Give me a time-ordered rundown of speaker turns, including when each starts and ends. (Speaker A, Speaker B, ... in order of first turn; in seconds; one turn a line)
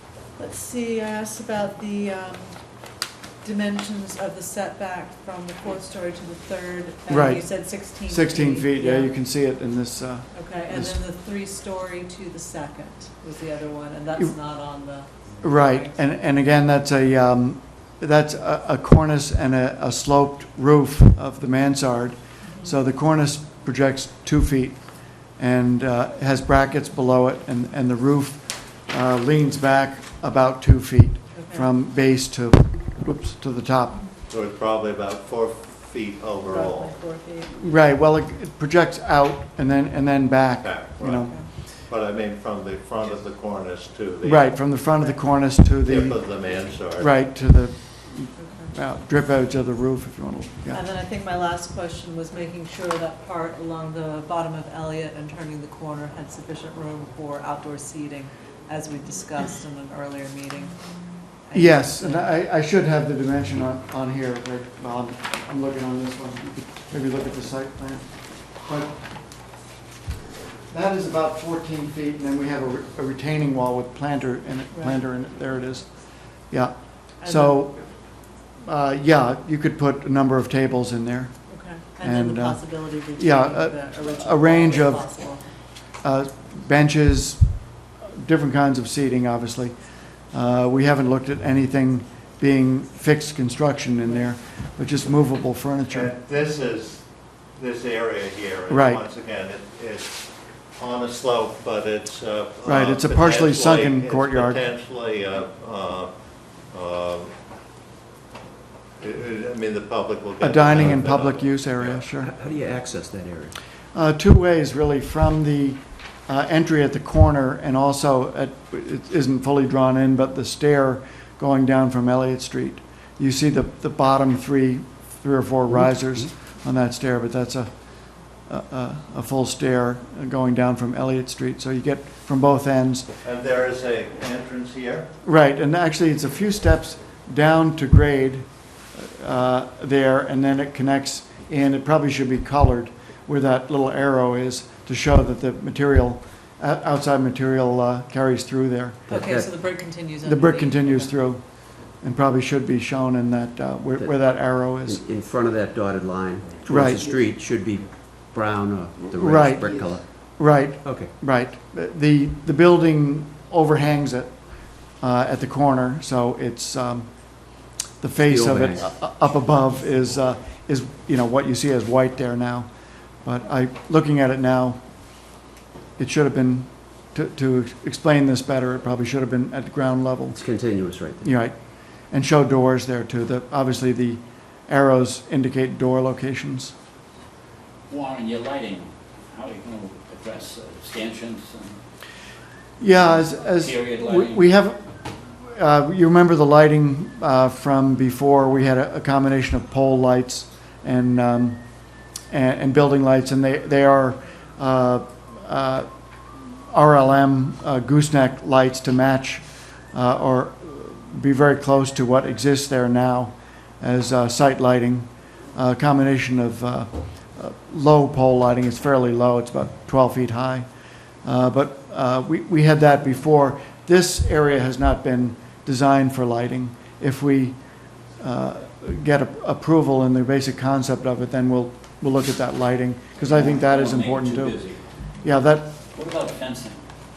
Speaker A: 0.3-2.6
Speaker A: 3.4-9.1
Speaker B: 7.1-11.0
Speaker A: 10.3-16.0
Speaker B: 15.4-34.0
Speaker A: 22.4-22.7
Speaker A: 31.3-31.7
Speaker C: 34.3-36.9
Speaker A: 36.4-37.6
Speaker B: 37.5-41.3
Speaker C: 40.6-44.6
Speaker B: 44.2-50.8
Speaker C: 45.8-47.1
Speaker A: 48.4-48.7
Speaker A: 50.7-60.8
Speaker A: 61.5-62.3
Speaker B: 61.5-69.0
Speaker B: 70.7-81.4
Speaker A: 74.7-75.0
Speaker A: 77.2-77.7
Speaker A: 81.5-85.4
Speaker B: 82.0-85.0
Speaker B: 86.0-87.5
Speaker B: 88.0-89.8
Speaker B: 90.3-96.1
Speaker C: 95.9-106.1
Speaker B: 98.7-99.0
Speaker B: 102.6-104.6
Speaker C: 106.7-107.3
Speaker C: 109.0-112.1
Speaker B: 110.4-112.3
Speaker D: 112.2-113.6
Speaker B: 113.9-133.1
Speaker C: 133.2-135.1
Speaker B: 135.2-149.0
Speaker D: 149.1-149.5
Speaker A: 149.1-151.2
Speaker B: 150.2-155.0
Speaker D: 154.8-160.1
Speaker B: 156.7-157.1
Speaker B: 159.1-172.7
Speaker D: 160.8-161.1
Speaker D: 168.2-168.8
Speaker B: 173.2-174.8
Speaker B: 176.0-180.4
Speaker D: 180.3-181.4
Speaker B: 181.2-186.7
Speaker E: 187.9-191.8
Speaker B: 192.8-201.6
Speaker E: 193.4-194.5
Speaker B: 202.3-205.9
Speaker B: 206.7-220.7
Speaker B: 221.2-227.6
Speaker B: 228.2-234.6
Speaker E: 233.2-234.8
Speaker B: 235.2-235.7
Speaker E: 235.9-236.9